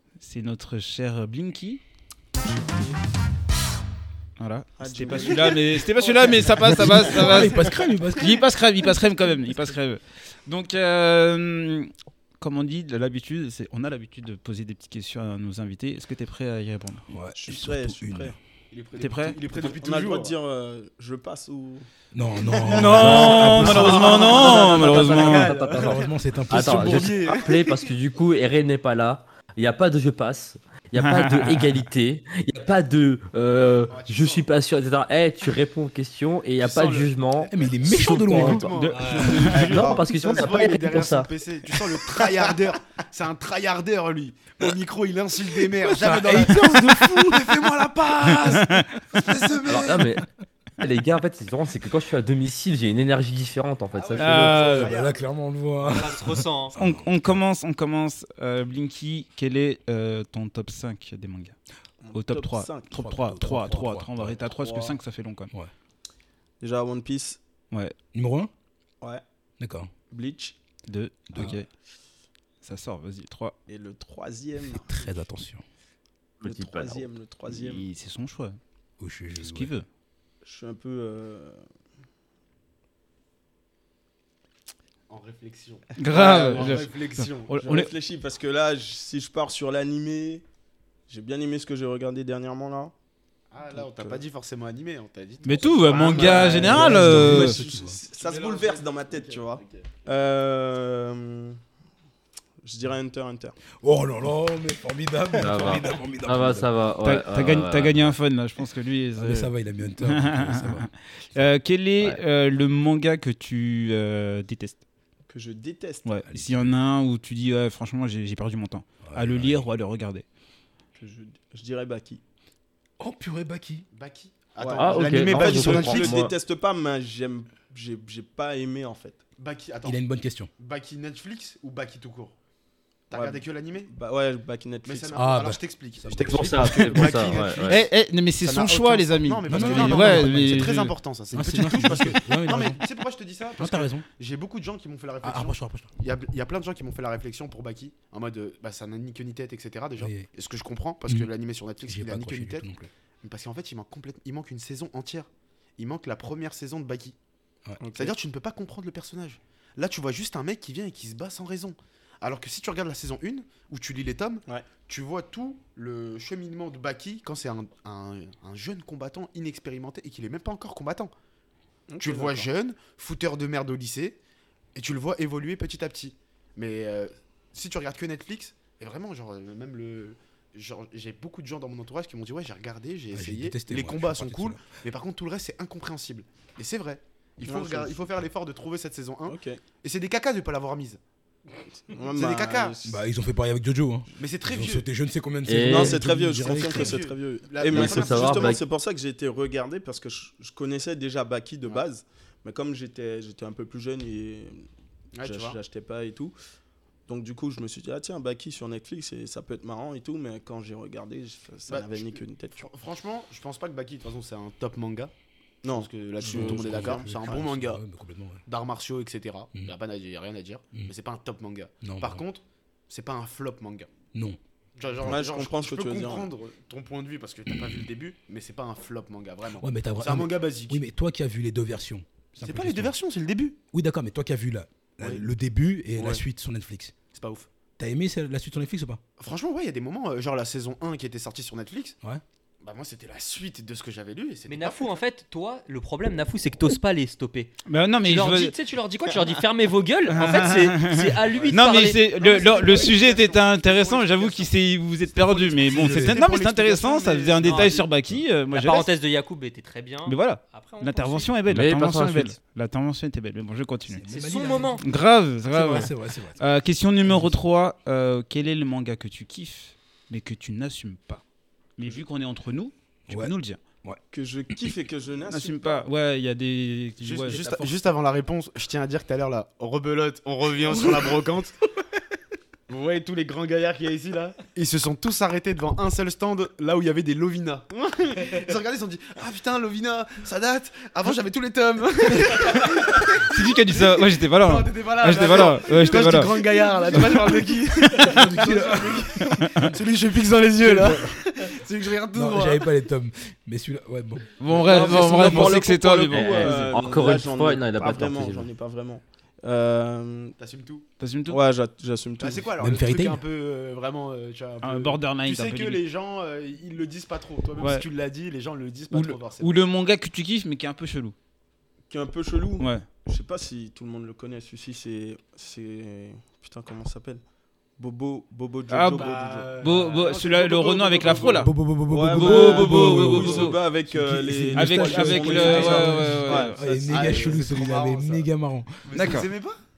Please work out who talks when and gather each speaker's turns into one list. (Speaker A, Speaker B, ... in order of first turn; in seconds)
Speaker A: 0.2-1.8, 4.4-17.1, 18.9-19.4, 22.6-25.5, 30.9-31.8, 38.7-39.9, 48.5-48.9, 54.2-54.9, 56.8-61.5, 62.1-65.5, 70.9-71.7, 72.6-73.5, 77.5-78.6, 79.4-79.8, 86.0-87.9, 95.4-97.6, 107.0-114.8, 116.0-120.2, 137.6-140.9, 247.7-248.5, 250.1-258.9, 260.0-264.1, 264.8-271.2, 271.8-273.6, 275.3-277.5, 293.3-296.3, 304.4-306.6, 311.0-311.4, 314.6-315.8, 317.6-317.9, 318.9-321.1, 322.6-322.8, 328.7-329.1, 329.6-331.5, 332.1-333.6, 334.6-336.6, 338.9-339.3
Speaker B: 4.8-7.4, 17.3-18.4, 19.4-21.9, 62.0-63.0, 64.4-65.0, 66.6-67.4, 70.1-70.5, 73.7-75.0, 76.4-77.9, 80.4-81.6, 86.1-86.9, 87.6-90.4, 91.1-92.9, 93.7-94.2, 95.9-101.5, 102.6-103.5, 115.3-116.1, 121.0-122.2, 124.6-129.2, 133.1-135.3, 157.8-158.1, 171.9-172.5, 187.4-188.1, 189.3-189.6, 191.9-193.0, 195.7-204.6, 205.2-206.3, 207.1-212.7, 215.6-217.4, 225.0-226.3, 274.1-275.9, 304.5-310.4, 311.3-312.6, 321.9-327.2, 327.8-329.6, 331.9-337.5
Speaker C: 6.4-8.4, 17.1-18.4, 22.1-24.4, 25.5-27.2, 37.4-38.8, 45.6-47.6, 54.5-57.4, 62.9-64.3, 68.1-68.5, 69.6-69.9, 74.7-75.6, 79.0-79.7, 96.6-98.0, 103.8-106.7, 109.2-110.9, 116.3-116.7, 119.0-119.7, 123.0-123.9, 129.8-130.5, 135.1-137.1, 139.5-142.8, 143.6-144.1, 145.2-145.9, 150.0-150.3, 151.1-152.9, 183.1-184.6, 192.8-197.0, 216.2-218.4, 221.8-222.2, 224.1-224.4, 229.6-232.9, 233.7-236.9, 237.8-239.0, 255.8-256.2, 263.9-264.8, 265.5-266.4, 267.0-267.4, 273.1-274.7, 296.9-299.4, 300.6-301.2, 302.1-304.4, 305.0-305.5, 312.6-313.2, 331.3-338.7
Speaker D: 18.7-20.4, 22.4-27.9, 33.9-34.6, 36.6-50.1, 53.9-55.3, 85.1-87.8, 93.5-97.1, 98.2-99.6, 123.9-126.2, 129.4-130.0, 130.6-132.3, 133.1-133.9, 134.8-137.9, 138.4-152.7, 153.2-157.1, 157.9-171.1, 172.0-174.2, 174.7-191.0, 192.1-192.8, 194.2-194.9, 196.4-198.6, 205.2-205.6, 211.7-215.1, 215.7-217.8, 218.4-223.9, 224.8-230.8, 232.4-233.6, 235.0-235.2, 235.9-236.2, 237.1-237.5, 239.2-241.9, 242.6-245.0, 251.3-254.5, 255.1-257.9, 277.0-281.6, 282.7-302.7, 310.4-310.9, 312.2-319.6, 328.9-331.4, 335.3-336.1, 336.8-338.3, 338.8-339.6
Speaker E: 23.1-38.6, 39.3-41.3, 49.7-50.2, 50.8-54.6, 76.4-77.1, 105.4-108.1, 124.8-126.3, 136.2-137.8, 195.5-196.0, 197.7-198.6, 261.4-262.3, 306.1-308.5
Speaker F: 38.9-39.4, 55.8-56.8, 244.4-247.5, 248.0-252.0, 257.4-257.8, 258.5-261.3, 264.1-264.8